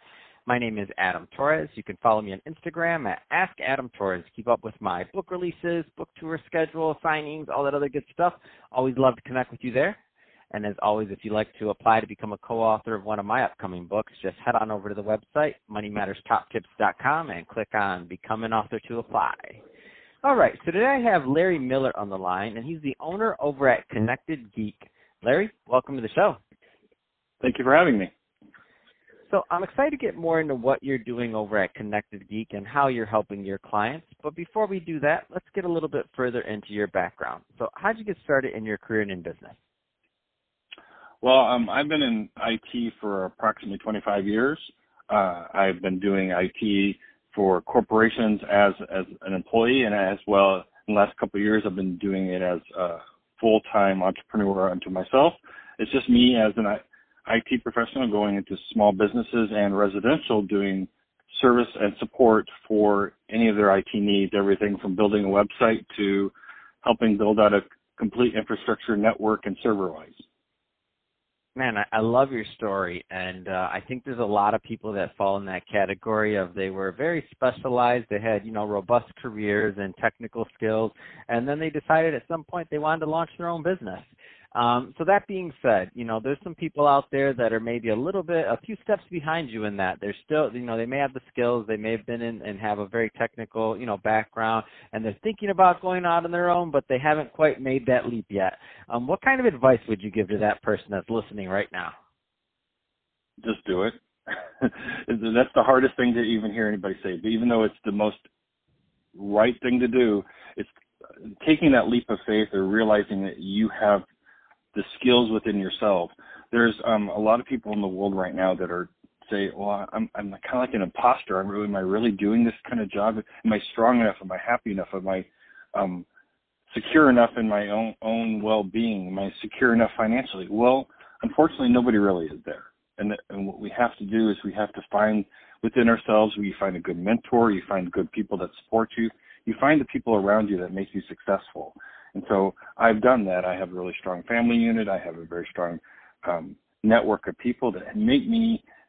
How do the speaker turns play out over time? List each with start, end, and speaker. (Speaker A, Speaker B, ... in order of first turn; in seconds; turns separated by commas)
Speaker A: 0.5-10.0, Speaker A: 10.5-19.6, Speaker A: 20.2-26.4, Speaker B: 27.4-28.1, Speaker A: 29.3-39.6, Speaker B: 41.2-70.2, Speaker A: 71.6-101.9, Speaker B: 103.4-104.0, Speaker B: 104.6-108.2, Speaker B: 109.2-110.7, Speaker B: 111.4-114.0, Speaker B: 114.7-126.1, Speaker B: 126.7-148.6